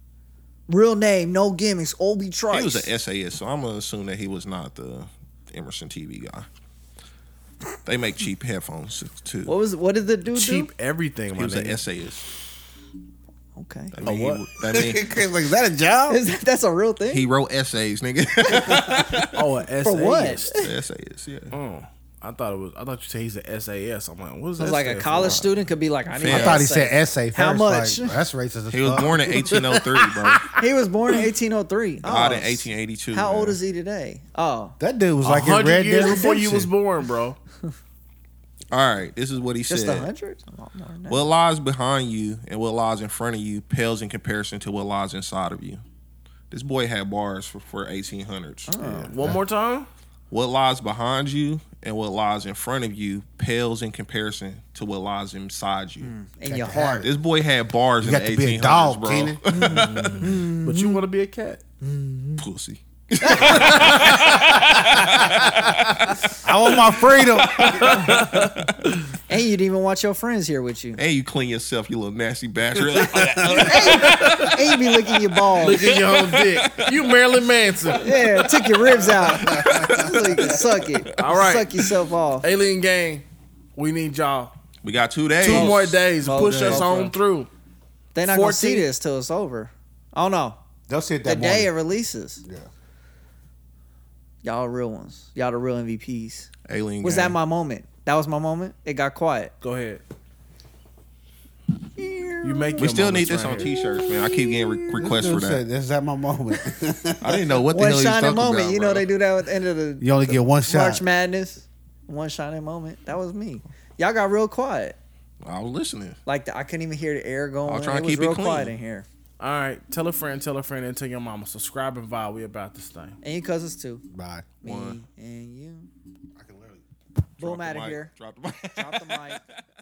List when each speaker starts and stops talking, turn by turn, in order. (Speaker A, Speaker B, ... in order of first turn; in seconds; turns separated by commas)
Speaker A: 0.7-2.9, Speaker B: 2.5-6.5, Speaker B: 7.8-9.5, Speaker A: 9.4-10.7, Speaker C: 10.3-11.8, Speaker B: 11.3-12.2, Speaker A: 13.6-13.9, Speaker B: 13.9-15.1, Speaker C: 14.0-14.4, Speaker D: 14.6-16.2, Speaker A: 16.1-17.2, Speaker B: 17.1-19.4, Speaker D: 18.5-19.1, Speaker C: 19.3-20.6, Speaker A: 19.8-20.7, Speaker B: 20.6-21.5, Speaker C: 21.5-25.5, Speaker A: 24.6-28.2, Speaker B: 25.2-25.5, Speaker B: 26.2-26.6, Speaker D: 26.2-29.4, Speaker B: 28.7-30.5, Speaker C: 29.4-30.6, Speaker A: 30.6-34.8, Speaker B: 32.0-33.6, Speaker D: 34.8-36.7, Speaker C: 35.2-37.4, Speaker B: 38.7-40.1, Speaker A: 39.7-41.3, Speaker B: 41.1-45.8, Speaker B: 46.5-48.7, Speaker A: 48.7-49.1, Speaker C: 48.8-49.9, Speaker B: 50.3-56.1, Speaker A: 56.0-57.1, Speaker D: 56.5-57.1, Speaker B: 57.0-60.4, Speaker D: 58.0-59.4, Speaker A: 59.5-61.0, Speaker C: 59.6-61.6, Speaker A: 61.8-62.4, Speaker B: 62.4-68.9, Speaker A: 63.2-64.1, Speaker C: 63.4-64.2, Speaker D: 64.3-65.5, Speaker D: 66.4-68.2, Speaker C: 67.8-68.6, Speaker A: 69.3-71.0, Speaker B: 71.0-77.2, Speaker D: 72.9-74.3, Speaker A: 73.5-75.9, Speaker C: 75.5-78.1, Speaker B: 77.8-80.7, Speaker A: 78.0-82.5, Speaker D: 79.5-79.9, Speaker C: 81.1-81.8, Speaker C: 82.4-84.5, Speaker B: 84.8-86.9, Speaker C: 85.4-87.5, Speaker A: 85.4-87.1, Speaker A: 88.1-90.6, Speaker C: 88.2-88.9, Speaker D: 90.9-91.7, Speaker A: 91.2-92.4, Speaker D: 92.4-92.7, Speaker A: 94.4-96.5, Speaker B: 96.7-97.3, Speaker A: 97.0-99.5, Speaker C: 99.6-100.0, Speaker A: 102.0-102.9, Speaker C: 102.4-103.7, Speaker B: 102.8-105.6, Speaker A: 103.6-105.0, Speaker D: 105.0-107.7, Speaker B: 107.2-109.0, Speaker A: 107.7-115.0, Speaker D: 110.0-111.0, Speaker B: 115.4-116.2, Speaker A: 116.2-119.0, Speaker B: 117.7-118.7, Speaker C: 119.4-123.2, Speaker A: 123.2-124.0, Speaker D: 124.1-124.5, Speaker A: 124.6-125.9, Speaker B: 124.6-125.0, Speaker D: 126.3-126.8, Speaker A: 127.4-128.1, Speaker B: 127.4-129.4, Speaker A: 128.7-129.4